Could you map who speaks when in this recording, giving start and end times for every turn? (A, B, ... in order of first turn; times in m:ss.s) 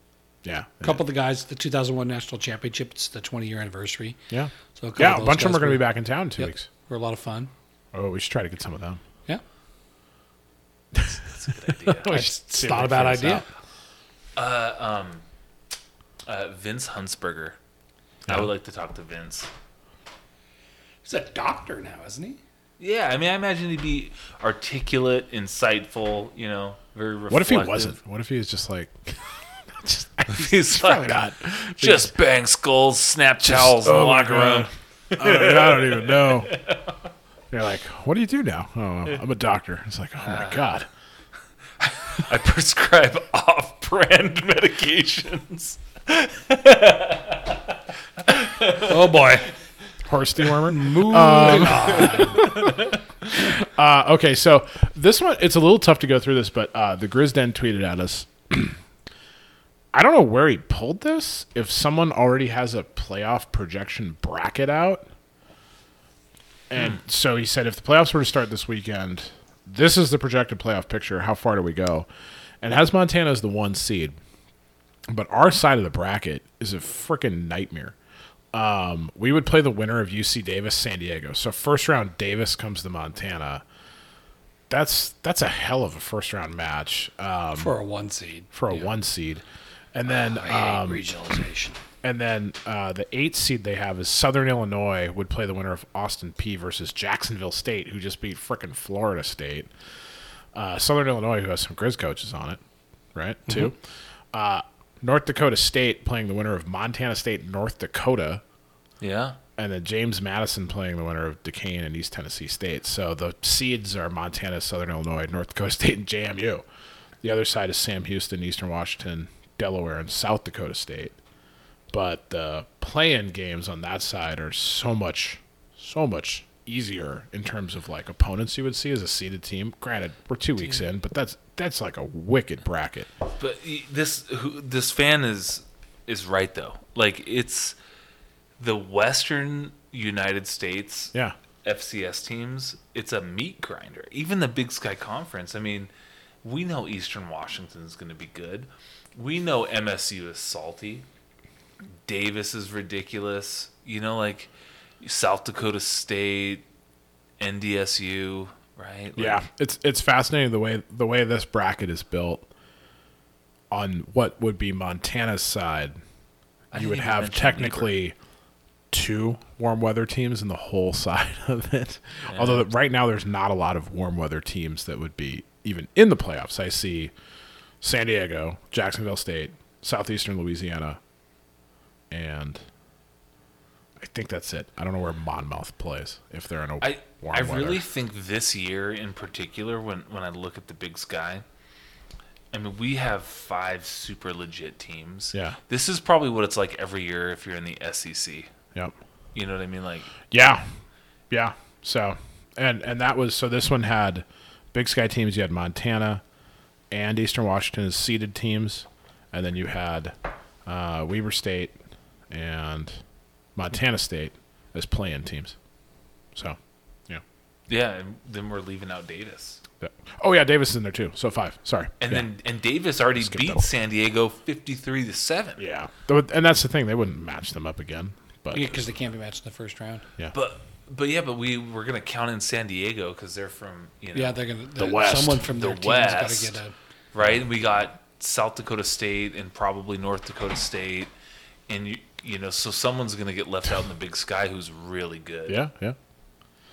0:00.4-0:01.0 A
0:00.8-0:04.2 B
0:04.3-0:06.7 A
0:04.8-0:07.5 B
0:07.9-0:09.0 A
0:11.1-0:12.1 C
0:11.8-0:13.5 A
0:12.0-0:13.4 B
0:14.4-0:15.2 C
0:16.2-0:17.6 C
0:18.3-0:19.5 C
0:21.0-0:22.4 B
0:22.8-0:28.0 C
0:27.3-0:32.1 A
0:30.3-0:37.0 C
0:33.4-0:36.5 A
0:37.5-0:40.9 A
0:40.2-0:40.6 C
0:41.8-0:47.6 C
0:48.2-0:48.9 C
0:48.7-0:49.5 B
0:50.0-0:52.7 A
0:50.7-0:52.5 B
0:52.0-0:53.0 C
0:53.4-0:58.8 A
0:59.9-1:05.1 A
1:06.7-1:12.1 A
1:12.6-1:14.2 A
1:15.1-1:17.9 A
1:18.5-1:23.6 A
1:24.7-1:27.7 A
1:27.5-1:28.8 B
1:28.5-1:31.1 A
1:30.1-1:31.8 B
1:32.0-1:39.7 A
1:40.5-1:42.6 A
1:43.1-1:43.8 A
1:44.3-1:48.4 A
1:49.0-1:49.4 C
1:49.6-1:56.6 A
1:57.2-2:01.1 A
2:01.9-2:13.1 A
2:13.4-2:17.8 C
2:18.6-2:25.9 C
2:26.4-2:31.0 C
2:32.0-2:36.6 C
2:37.4-2:39.4 C
2:39.2-2:42.5 A
2:43.7-2:46.0 A
2:46.7-2:48.0 C
2:46.7-2:48.1 A
2:48.9-2:57.1 A
2:52.3-2:52.7 C
2:57.8-3:01.0 A
3:02.1-3:02.6 A
3:04.0-3:07.8 A
3:06.8-3:11.4 C
3:12.5-3:18.5 C
3:19.3-3:20.1 C
3:20.3-3:20.7 A
3:21.3-3:26.2 A
3:26.9-3:30.1 A
3:30.6-3:31.8 A
3:32.3-3:33.0 A
3:33.6-3:35.6 A
3:36.3-3:37.2 A
3:37.7-3:39.6 C
3:39.8-3:42.3 A
3:42.0-3:45.6 C
3:43.2-3:43.6 A
3:45.6-3:48.8 A
3:48.5-3:50.0 B
3:50.3-3:54.4 C
3:54.1-3:56.7 B
3:54.8-3:55.5 A
3:55.5-3:56.6 C
3:57.1-4:01.1 C
4:01.7-4:05.6 C
4:05.5-4:06.0 A